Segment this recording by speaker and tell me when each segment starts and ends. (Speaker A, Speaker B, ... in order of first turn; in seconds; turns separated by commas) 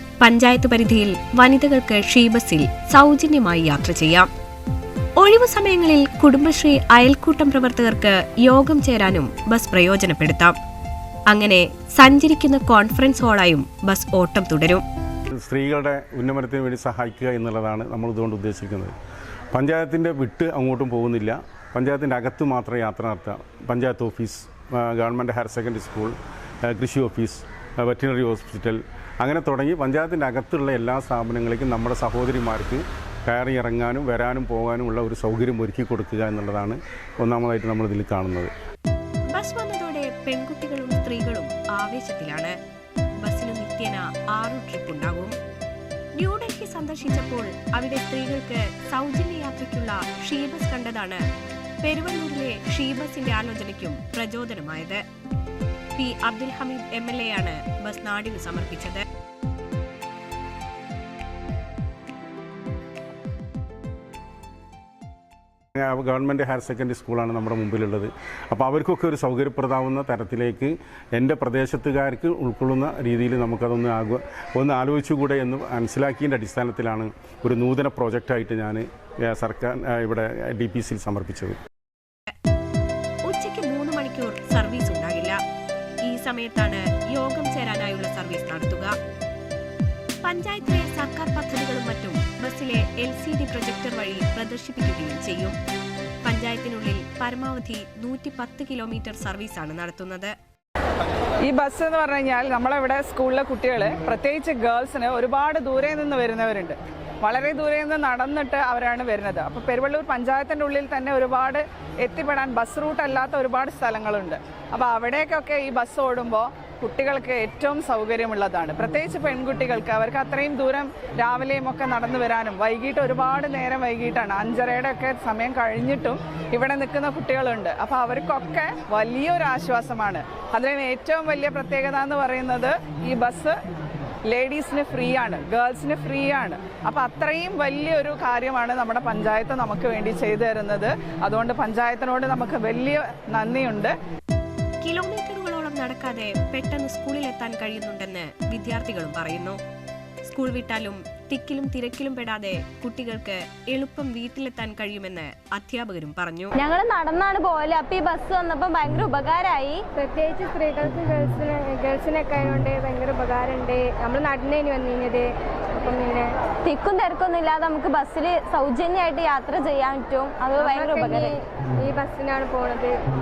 Speaker A: 0.2-4.3, Speaker A: 5.2-10.6, Speaker A: 11.3-14.8, Speaker B: 15.3-18.9, Speaker B: 19.5-38.5, Speaker A: 39.3-42.5, Speaker A: 43.2-45.4, Speaker A: 46.2-51.2, Speaker A: 51.8-55.0, Speaker A: 56.0-59.0, Speaker B: 65.8-81.6, Speaker A: 83.2-85.4, Speaker A: 86.0-88.9, Speaker A: 90.2-95.6, Speaker A: 96.2-100.3, Speaker C: 101.4-133.6, Speaker C: 134.3-143.9, Speaker A: 144.8-149.6, Speaker A: 150.2-156.6, Speaker D: 156.6-159.8, Speaker E: 159.9-166.3, Speaker D: 166.6-171.3, Speaker E: 170.5-173.0